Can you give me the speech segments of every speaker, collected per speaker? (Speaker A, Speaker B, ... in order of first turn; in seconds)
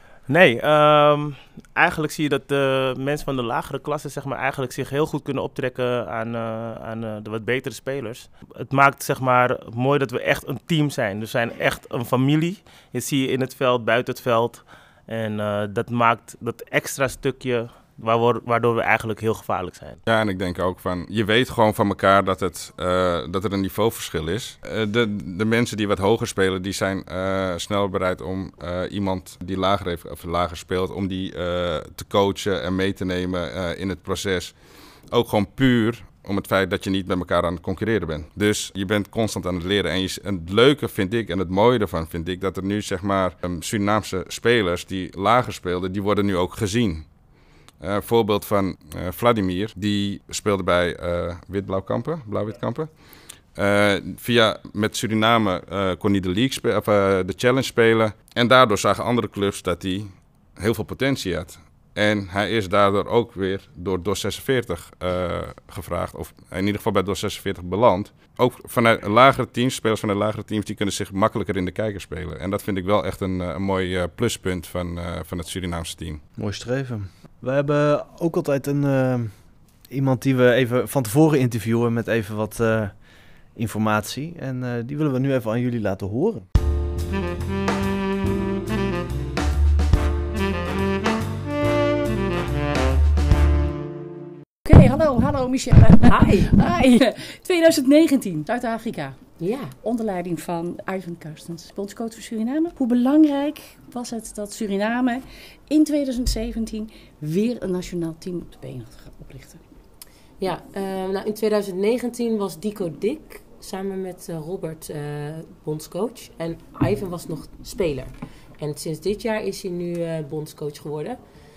Speaker A: 0.3-20.0
Speaker B: 20.0-34.6, 35.1-47.1, 47.8-76.2
Speaker C: 76.4-86.5
Speaker D: 94.7-99.2, 99.8-109.6
Speaker E: 96.1-96.5, 99.4-99.7, 110.4-121.2